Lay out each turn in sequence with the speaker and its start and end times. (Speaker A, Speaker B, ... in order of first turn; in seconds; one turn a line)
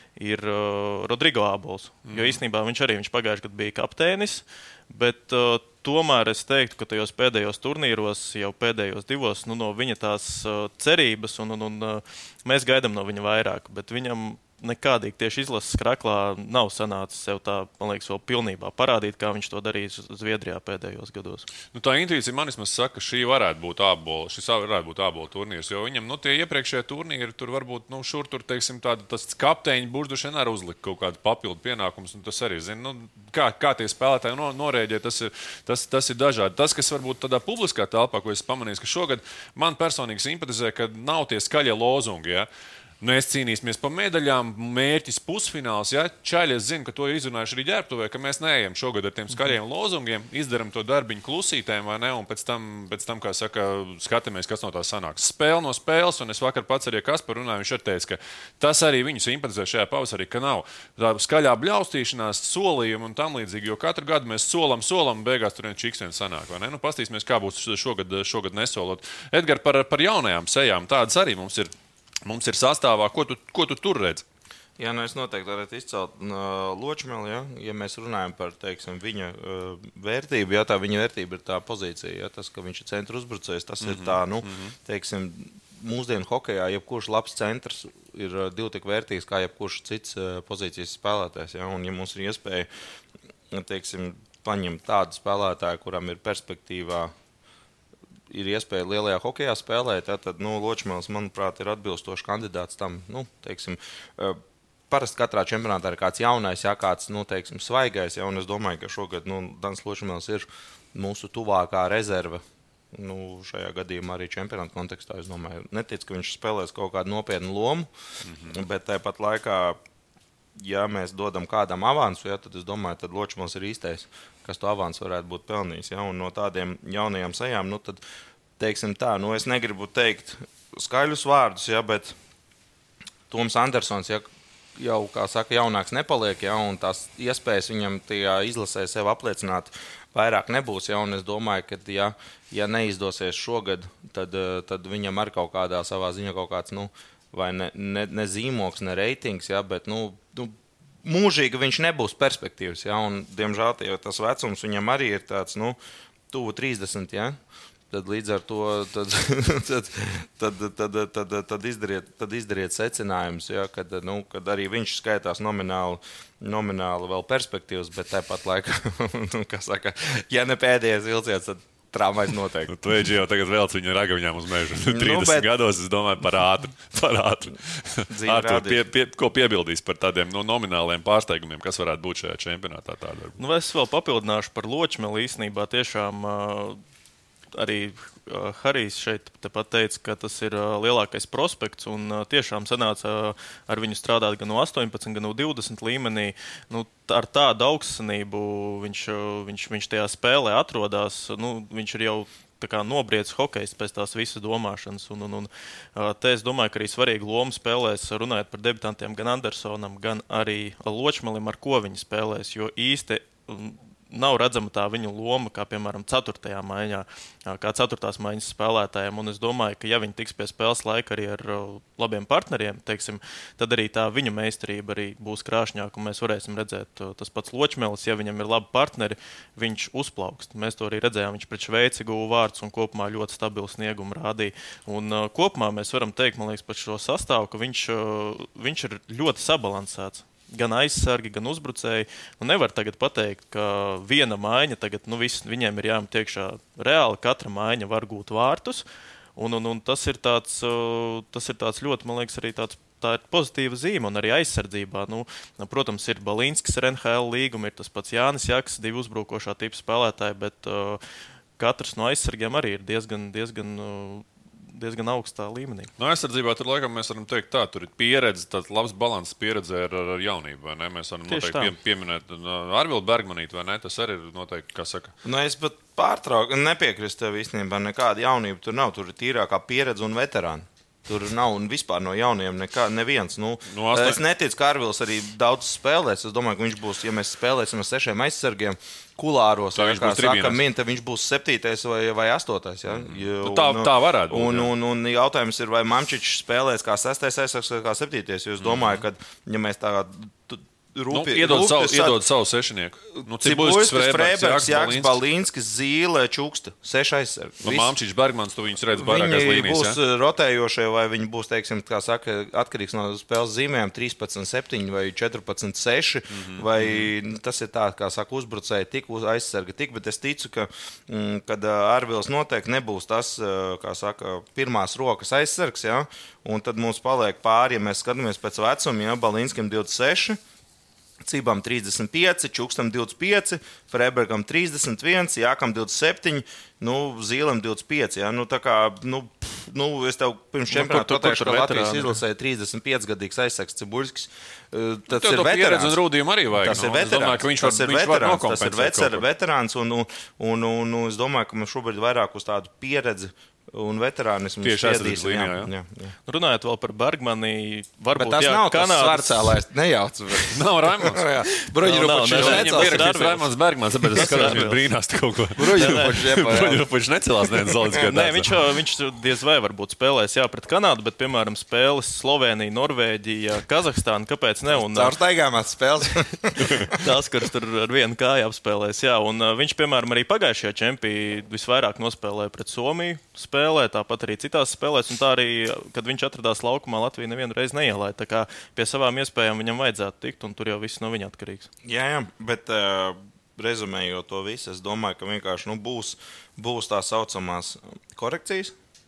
Speaker A: 0.2-21.5
Speaker B: 2.1-2.4
Speaker B: 21.7-42.5
Speaker B: 43.0-71.7
Speaker B: 72.3-74.2
Speaker C: 74.8-92.7
Speaker B: 83.8-84.7
Speaker C: 93.5-97.1
Speaker C: 98.3-117.9
Speaker B: 118.2-118.6
Speaker C: 118.5-119.8
Speaker C: 120.6-128.0
Speaker C: 128.6-132.2
Speaker C: 133.3-155.8
Speaker C: 156.3-157.4
Speaker C: 157.9-172.8
Speaker B: 172.7-183.4
Speaker C: 174.9-175.5
Speaker C: 178.1-178.8
Speaker A: 183.4-186.8
Speaker A: 187.5-248.8
Speaker A: 249.4-261.0
Speaker A: 261.6-265.9
Speaker B: 266.0-275.1
Speaker A: 271.3-271.8
Speaker C: 275.2-302.2
Speaker B: 283.7-284.2
Speaker B: 289.8-290.6
Speaker B: 292.9-294.7
Speaker B: 298.6-299.0
Speaker B: 301.1-305.2
Speaker C: 303.2-307.9
Speaker B: 307.6-310.0
Speaker C: 308.9-330.4
Speaker B: 316.4-317.1
Speaker C: 331.2-346.0
Speaker A: 340.7-342.1
Speaker B: 345.1-349.2
Speaker C: 346.5-356.1
Speaker B: 354.6-355.7
Speaker A: 356.3-359.6
Speaker C: 358.1-363.1
Speaker B: 360.4-361.4
Speaker A: 361.8-363.5
Speaker B: 362.3-368.5
Speaker A: 364.1-364.8
Speaker C: 364.2-364.6
Speaker C: 365.6-366.9
Speaker A: 365.8-366.1
Speaker A: 367.9-375.1
Speaker C: 374.8-377.0
Speaker A: 376.9-391.7
Speaker C: 391.8-398.8